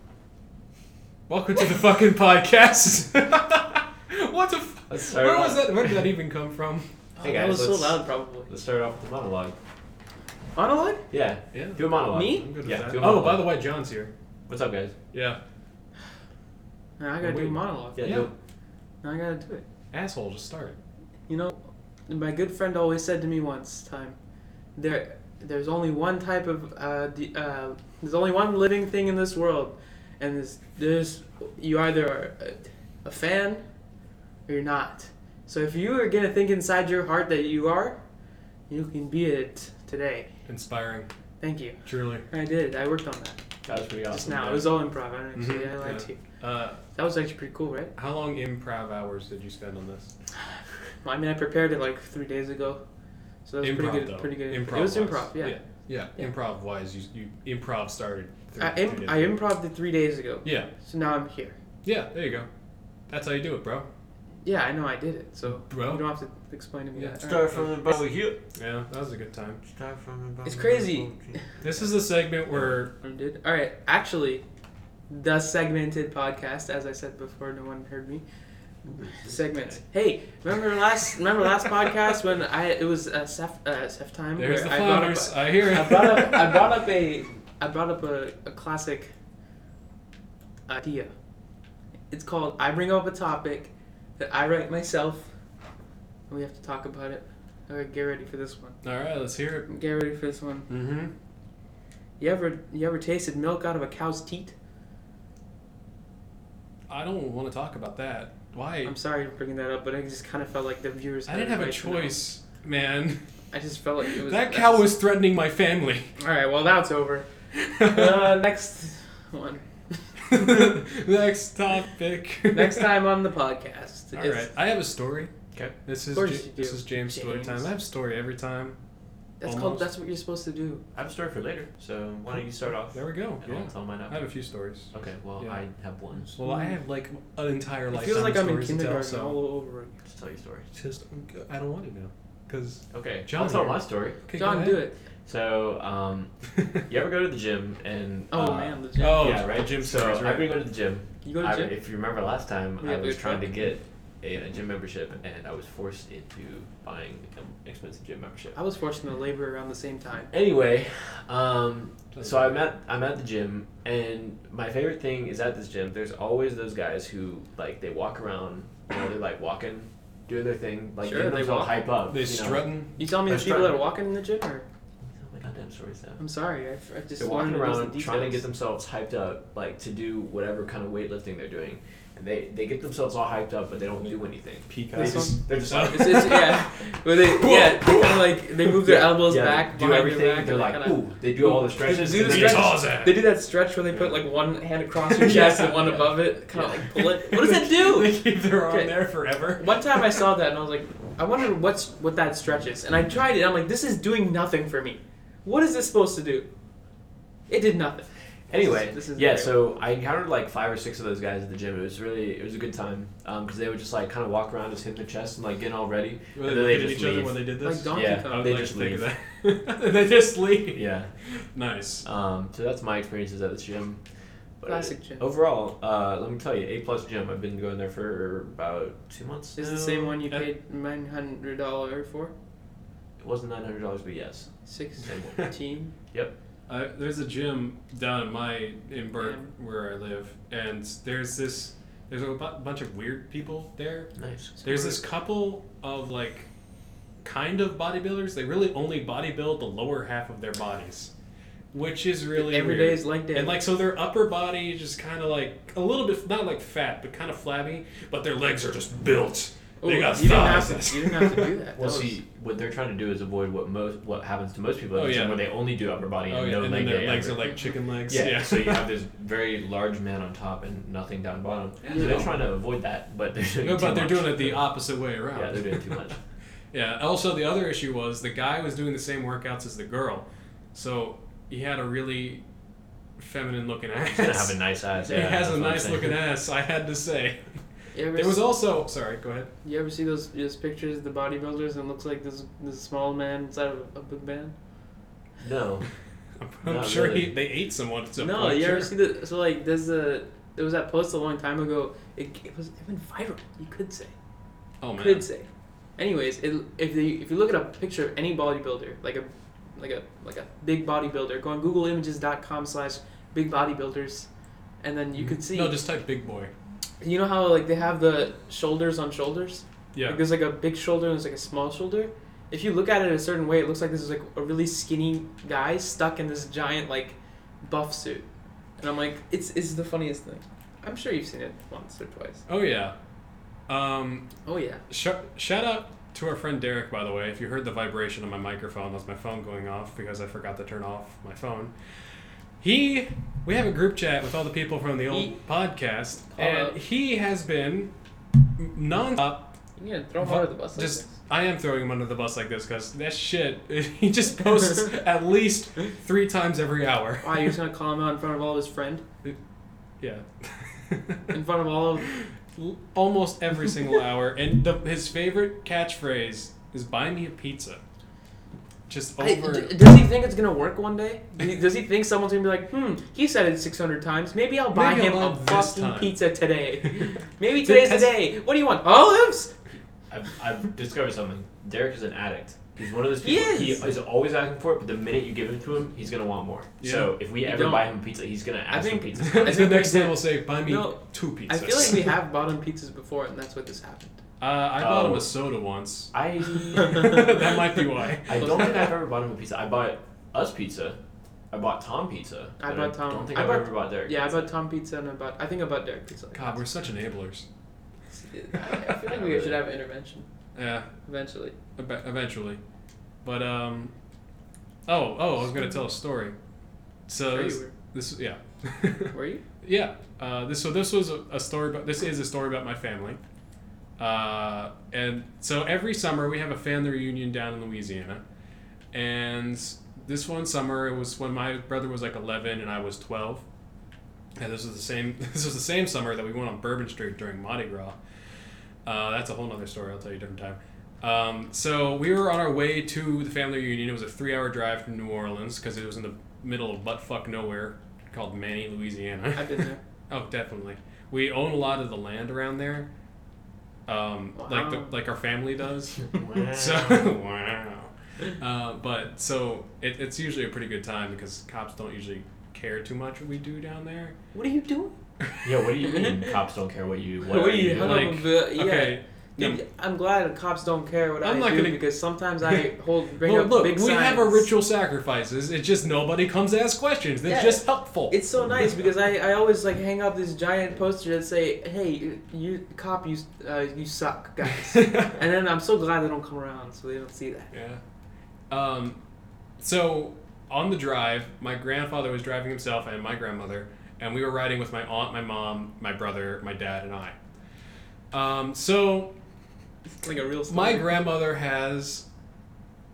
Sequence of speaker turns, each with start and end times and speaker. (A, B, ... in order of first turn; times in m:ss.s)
0:01.3-0:06.9 A
0:04.9-0:06.1 B
0:07.2-0:08.5 C
0:07.2-0:09.6 B
0:10.6-0:11.0 C
0:11.1-0:13.5 B
0:11.5-0:14.1 A
0:12.1-0:12.6 C
0:14.5-0:14.9 B
0:15.1-0:15.4 A
0:17.0-0:18.3 C
0:17.2-0:18.3 A
0:18.0-0:18.3 B
0:19.0-0:19.6 C
0:19.9-0:20.8 A
0:21.3-0:24.2 C
0:24.8-0:33.6 C
0:34.5-0:38.0 C
0:38.7-0:40.3 C
0:40.5-0:41.1 A
0:41.4-0:43.4 C
0:41.8-0:42.3 A
0:43.6-0:44.7 B
0:44.1-0:46.2 C
0:45.3-0:46.8 A
0:46.9-0:47.9 C
0:48.0-0:50.1 A
0:51.0-0:52.8 C
0:53.4-0:55.6 C
0:53.6-0:59.3 A
0:58.6-1:01.6 C
1:00.4-1:00.7 A
1:01.8-1:02.5 A
1:03.1-1:03.9 A
1:04.4-1:07.9 C
1:05.6-1:06.0 A
1:07.0-1:07.7 A
1:07.2-1:08.4 B
1:08.5-1:09.6 A
1:09.6-1:11.6 B
1:10.4-1:11.4 C
1:11.6-1:12.9 A
1:12.8-1:14.4 C
1:15.1-1:18.2 C
1:18.8-1:19.8 B
1:19.1-1:29.1 C
1:24.4-1:26.8 A
1:30.7-1:31.1 C
1:32.1-1:35.3 C
1:36.3-1:38.8 C
1:38.8-1:39.7 A
1:39.7-1:40.7 C
1:40.7-1:41.1 A
1:42.2-1:44.5 C
1:46.9-1:48.9 A
1:48.8-1:52.2 C
1:51.3-1:53.2 A
1:53.5-1:54.9 C
1:54.0-1:56.1 A
1:56.2-1:57.3 C
1:57.5-1:58.4 A
1:57.8-2:00.8 C
2:00.2-2:02.9 A
2:02.5-2:04.5 C
2:04.1-2:05.3 A
2:05.8-2:08.8 A
2:06.1-2:07.7 C
2:09.4-2:10.8 C
2:09.4-2:09.9 A
2:10.9-2:14.3 B
2:12.3-2:15.6 A
2:14.9-2:16.3 B
2:16.3-2:19.3 A
2:16.4-2:16.7 C
2:17.9-2:20.0 C
2:20.0-2:20.7 B
2:20.7-2:24.8 A
2:22.9-2:24.2 B
2:24.4-2:25.0 C
2:25.2-2:26.3 B
2:26.5-2:26.8 A
2:26.9-2:38.6 B
2:28.3-2:29.4 C
2:29.0-2:30.5 A
2:31.2-2:31.7 C
2:32.8-2:33.7 C
2:38.5-2:40.3 C
2:40.3-2:52.6 B
2:42.1-2:42.5 A
2:51.0-2:51.9 C
2:52.1-2:53.0 A
2:53.0-2:54.6 C
2:53.2-2:53.8 B
2:55.0-2:56.2 B
2:56.2-2:58.4 C
2:57.2-3:06.3 B
3:04.7-3:08.4 A
3:04.9-3:19.0 C
3:08.8-3:12.8 B
3:11.8-3:13.2 A
3:15.0-3:16.2 A
3:15.3-3:16.8 B
3:16.9-3:20.2 A
3:19.5-3:26.5 C
3:27.5-3:29.5 C
3:28.5-3:37.4 B
3:36.4-3:42.0 A
3:37.6-3:38.6 C
3:37.9-3:39.0 B
3:40.7-3:41.1 B
3:42.0-3:44.0 B
3:44.6-3:50.2 B
3:44.6-3:45.3 C
3:49.6-3:52.3 C
3:53.2-3:54.5 B
3:54.6-3:55.9 C
3:55.0-3:55.4 B
3:56.7-4:04.1 A
3:59.2-3:59.5 C
4:04.1-4:04.5 B
4:04.6-4:05.0 C
4:04.6-4:06.5 A
4:07.2-4:11.1 A
4:11.7-4:21.5 A
4:12.3-4:13.6 C
4:19.8-4:22.2 C
4:21.8-4:27.5 B
4:24.9-4:25.5 A
4:26.3-4:28.9 A
4:28.1-4:34.6 B
4:31.8-4:32.4 A
4:31.8-4:32.2 C
4:33.6-4:36.1 A
4:35.3-4:36.2 B
4:36.7-4:42.4 A
4:43.2-4:47.4 A
4:44.1-4:46.2 B
4:47.9-4:48.4 C
4:48.1-4:49.5 A
4:49.6-4:54.5 C
4:55.4-4:55.9 B
4:56.4-4:58.9 A
4:56.6-4:57.3 B
4:58.2-5:04.1 C
5:04.8-5:05.2 A
5:04.9-5:14.3 C
5:14.8-5:15.8 C
5:15.2-5:16.5 A
5:17.0-5:28.2 C
5:19.9-5:20.2 A
5:28.8-5:32.4 C
5:32.5-5:32.9 A
5:33.7-5:34.3 A
5:34.4-5:34.8 C
5:34.9-5:41.7 A
5:42.6-5:47.9 A
5:45.1-5:45.3 C
5:46.3-5:46.8 C
5:48.6-5:49.6 A
5:49.8-5:51.1 C
5:50.2-5:57.5 A
5:57.2-5:59.0 C
6:00.0-6:01.3 A
6:01.3-6:02.1 C
6:02.1-6:07.8 A
6:08.9-6:09.8 A
6:09.2-6:19.5 C
6:14.7-6:16.2 A
6:16.8-6:18.2 A
6:20.1-6:29.7 B
6:23.2-6:24.0 C
6:26.8-6:27.1 A
6:27.4-6:27.9 C
6:28.7-6:34.2 C
6:29.2-6:32.1 A
6:34.4-6:36.1 A
6:34.8-6:35.3 B
6:36.1-6:37.5 B
6:36.7-6:38.9 A
6:36.7-6:37.3 C
6:38.2-6:41.0 B
6:41.5-6:44.4 B
6:42.6-6:46.6 C
6:46.3-6:47.4 A
6:48.1-6:50.3 C
6:48.6-6:49.6 B
6:50.5-6:50.9 A
6:51.0-6:51.6 C
6:51.8-6:52.6 A
6:53.2-6:53.9 A
6:54.8-6:56.3 A
6:57.1-7:03.2 A
6:57.3-6:57.7 C
6:59.1-6:59.4 C
7:04.0-7:08.2 A
7:08.9-7:13.4 A
7:14.4-7:18.0 A
7:18.8-7:32.9 A
7:29.3-7:29.8 C
7:33.9-7:44.1 A
7:34.4-7:34.9 C
7:36.1-7:37.1 B
7:44.3-7:44.9 C
7:45.2-7:45.5 A
7:45.4-7:48.1 B
7:45.8-7:46.4 C
7:47.2-7:54.5 C
7:47.7-7:49.6 A
7:51.2-7:58.2 A
7:57.2-8:07.5 C
8:04.6-8:05.2 A
8:07.5-8:07.8 A
8:08.5-8:09.0 A
8:09.6-8:17.1 A
8:18.1-8:19.1 A
8:20.0-8:21.0 C
8:20.5-8:22.0 A